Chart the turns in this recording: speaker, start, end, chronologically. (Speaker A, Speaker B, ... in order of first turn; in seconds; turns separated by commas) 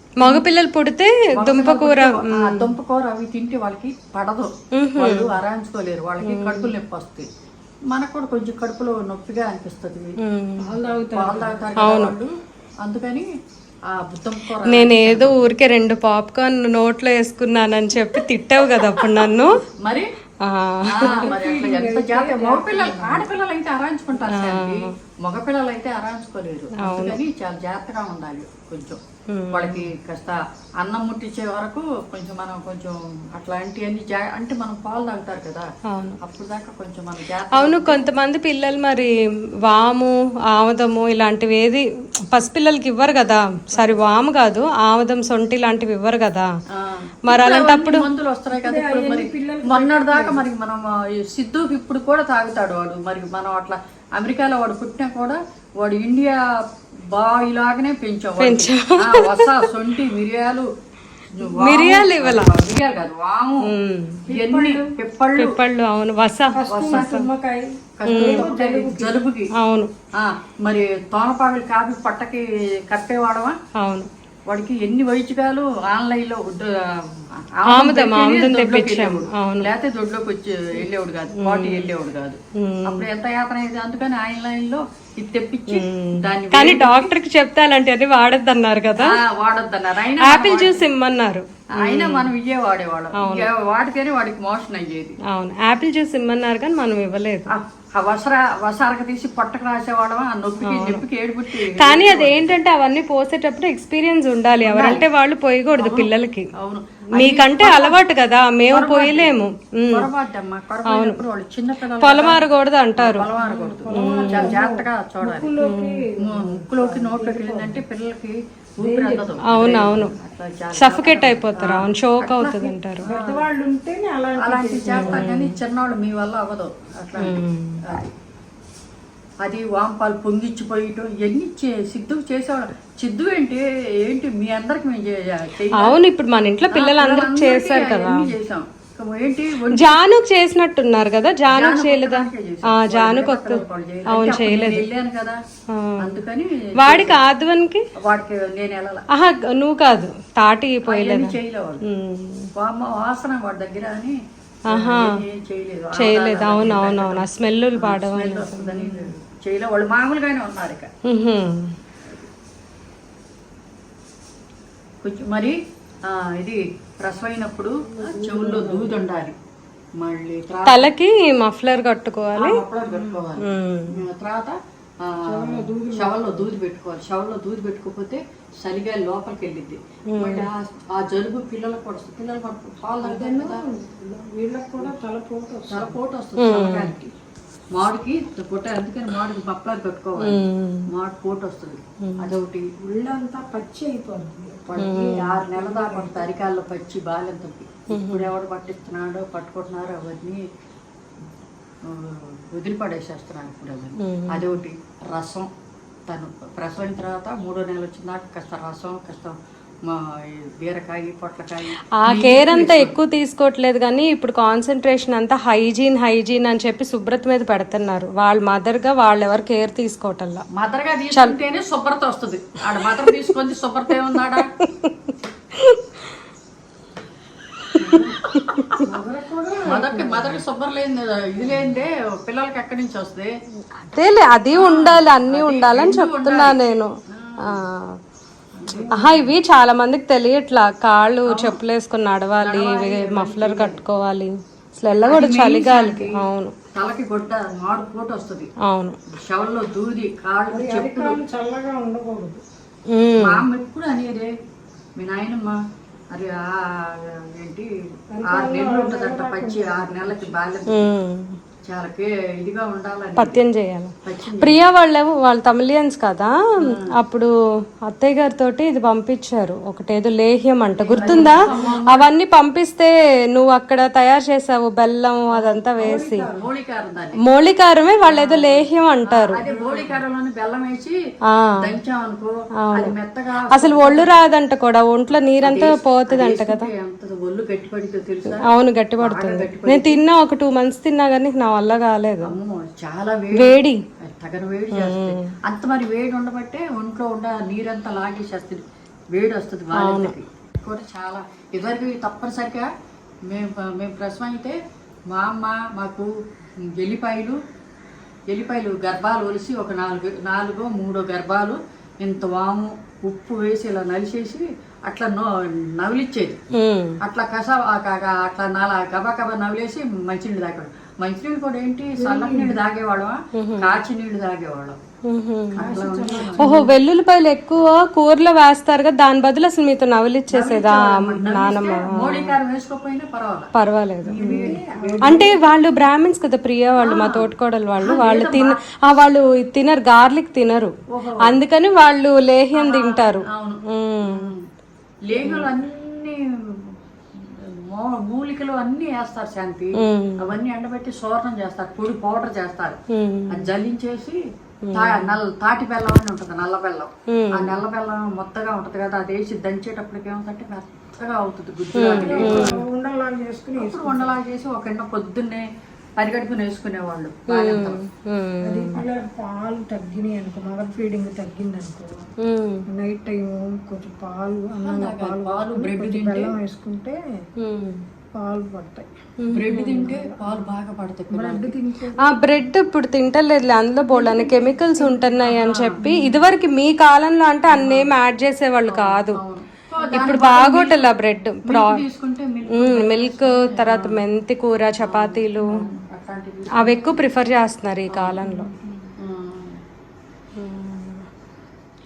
Speaker A: 0.2-2.7, Speaker B: 1.3-7.3, Speaker A: 4.8-5.4, Speaker A: 6.2-6.8, Speaker B: 7.9-10.2, Speaker A: 10.2-10.8, Speaker C: 10.6-11.7, Speaker B: 10.9-12.3, Speaker A: 11.8-12.2, Speaker B: 12.8-13.3, Speaker B: 13.9-15.5, Speaker A: 14.6-19.6, Speaker B: 18.9-19.3, Speaker B: 19.8-20.1, Speaker A: 20.4-21.3, Speaker B: 20.9-29.0, Speaker C: 21.0-23.3, Speaker A: 24.3-24.9, Speaker A: 26.8-27.2, Speaker A: 29.3-29.9, Speaker B: 29.5-35.7, Speaker A: 35.9-36.2, Speaker B: 36.2-38.0, Speaker A: 37.5-39.1, Speaker A: 39.7-46.5, Speaker B: 43.7-44.0, Speaker B: 46.8-56.4, Speaker A: 47.3-48.1, Speaker C: 48.6-50.5, Speaker B: 57.1-60.7, Speaker A: 58.4-59.7, Speaker B: 61.4-63.7, Speaker A: 61.5-62.5, Speaker A: 63.7-64.3, Speaker B: 64.3-65.6, Speaker C: 64.3-64.9, Speaker A: 65.4-67.2, Speaker C: 66.5-69.2, Speaker B: 66.7-67.2, Speaker B: 68.0-69.5, Speaker A: 68.1-68.5, Speaker A: 69.6-69.9, Speaker B: 70.2-73.6, Speaker A: 73.8-74.1, Speaker B: 74.5-76.7, Speaker B: 77.4-87.1, Speaker A: 77.7-79.7, Speaker A: 81.4-81.9, Speaker A: 82.6-83.0, Speaker A: 85.7-89.1, Speaker B: 89.0-90.9, Speaker A: 90.2-92.3, Speaker B: 91.8-95.2, Speaker A: 93.2-93.5, Speaker A: 95.3-97.5, Speaker B: 97.5-102.6, Speaker A: 100.6-101.0, Speaker A: 101.6-106.5, Speaker B: 104.6-105.1, Speaker B: 105.8-108.0, Speaker A: 107.2-110.1, Speaker B: 108.7-115.6, Speaker A: 110.9-111.2, Speaker A: 112.0-113.3, Speaker C: 113.4-117.8, Speaker A: 113.9-114.6, Speaker A: 115.6-116.0, Speaker B: 116.2-123.4, Speaker C: 118.8-119.3, Speaker A: 119.5-120.1, Speaker A: 120.8-123.1, Speaker C: 123.1-125.3, Speaker B: 124.4-128.1, Speaker A: 124.9-125.5, Speaker A: 127.2-127.8, Speaker B: 129.4-136.1, Speaker A: 135.8-138.3, Speaker B: 136.6-140.0, Speaker A: 139.8-144.9, Speaker B: 141.5-145.4, Speaker A: 145.7-146.1, Speaker B: 146.0-147.2, Speaker A: 146.8-147.8, Speaker B: 148.0-149.0, Speaker A: 149.1-152.5, Speaker B: 150.8-151.8, Speaker B: 152.6-154.2, Speaker B: 154.7-160.9, Speaker A: 154.7-155.2, Speaker A: 156.0-159.1, Speaker A: 161.1-161.7, Speaker B: 165.0-169.4, Speaker C: 168.0-169.0, Speaker B: 170.0-170.9, Speaker A: 170.7-172.5, Speaker B: 172.3-183.6, Speaker C: 172.9-173.2, Speaker A: 173.4-174.0, Speaker C: 175.3-176.5, Speaker A: 180.1-180.5, Speaker C: 183.0-186.0, Speaker B: 185.7-187.1, Speaker A: 186.4-186.9, Speaker B: 187.7-192.7, Speaker A: 190.2-190.9, Speaker C: 192.8-196.3, Speaker B: 194.7-200.4, Speaker A: 194.8-195.3, Speaker A: 197.9-198.3, Speaker B: 201.8-205.5, Speaker A: 204.0-204.5, Speaker B: 206.1-209.3, Speaker B: 209.9-213.0, Speaker A: 212.0-220.4, Speaker B: 220.6-224.5, Speaker A: 221.1-221.4, Speaker C: 227.8-228.1, Speaker C: 228.8-230.4, Speaker B: 229.7-233.3, Speaker A: 233.8-236.9, Speaker B: 234.5-236.6, Speaker B: 237.1-237.6, Speaker A: 237.4-238.0, Speaker B: 238.6-239.0, Speaker C: 238.6-239.3, Speaker A: 238.9-246.5, Speaker B: 241.3-241.6, Speaker B: 242.4-243.8, Speaker B: 245.0-246.2, Speaker B: 246.8-248.5, Speaker A: 248.6-249.0, Speaker B: 249.1-251.2, Speaker C: 250.5-252.4, Speaker A: 252.9-253.4, Speaker B: 253.2-254.3, Speaker B: 255.0-255.6, Speaker B: 256.1-257.7, Speaker C: 258.1-260.4, Speaker B: 258.3-260.9, Speaker A: 260.7-261.4, Speaker B: 261.6-263.4, Speaker A: 263.2-267.3, Speaker B: 264.1-264.6, Speaker B: 266.6-266.9, Speaker A: 267.9-276.3, Speaker B: 270.8-272.1, Speaker C: 271.0-271.8, Speaker C: 275.3-276.5, Speaker B: 275.9-277.2, Speaker A: 277.3-279.4, Speaker B: 278.0-280.9, Speaker C: 279.4-280.0, Speaker A: 281.3-281.7, Speaker B: 281.5-284.1, Speaker A: 282.7-282.9, Speaker A: 283.5-286.7, Speaker B: 285.4-288.4, Speaker A: 288.3-292.4, Speaker B: 289.0-290.0, Speaker B: 292.2-298.6, Speaker A: 293.4-293.8, Speaker A: 294.7-295.3, Speaker B: 299.1-302.7, Speaker A: 299.7-300.1, Speaker B: 303.3-304.6, Speaker B: 305.1-306.1, Speaker B: 306.8-307.4, Speaker B: 308.3-316.4, Speaker A: 316.6-317.0, Speaker B: 317.0-324.8, Speaker C: 322.0-322.6, Speaker A: 323.4-323.8, Speaker A: 325.1-325.7, Speaker B: 325.5-326.6, Speaker C: 325.6-326.7, Speaker A: 326.4-332.4, Speaker B: 330.3-333.5, Speaker A: 333.6-334.5, Speaker B: 334.0-335.3, Speaker C: 334.2-335.4, Speaker A: 335.0-344.3, Speaker B: 336.8-338.6, Speaker B: 340.9-341.4, Speaker B: 342.5-344.4, Speaker B: 345.1-352.8, Speaker A: 345.2-345.5, Speaker A: 349.8-350.3, Speaker A: 352.9-353.5, Speaker B: 353.3-354.2, Speaker A: 354.7-355.1, Speaker B: 354.7-362.6, Speaker A: 357.1-357.6, Speaker A: 361.8-362.6, Speaker C: 361.8-364.1, Speaker B: 363.6-365.5, Speaker B: 366.0-367.8, Speaker A: 367.3-368.8, Speaker C: 368.4-372.0, Speaker A: 372.2-372.6, Speaker C: 372.7-377.0, Speaker B: 374.6-376.3, Speaker A: 377.4-377.9, Speaker C: 378.1-380.5, Speaker A: 379.2-379.9, Speaker B: 379.3-381.5, Speaker C: 381.1-382.1, Speaker A: 382.0-389.2, Speaker C: 383.9-385.2, Speaker B: 385.2-385.8, Speaker C: 385.8-386.2, Speaker B: 387.5-387.9, Speaker B: 388.7-394.0, Speaker C: 389.8-390.1, Speaker A: 389.9-391.8, Speaker A: 392.6-395.5, Speaker B: 394.8-397.1, Speaker A: 396.6-398.5, Speaker B: 397.9-398.4, Speaker C: 398.2-398.9, Speaker B: 399.0-399.6, Speaker A: 400.4-401.1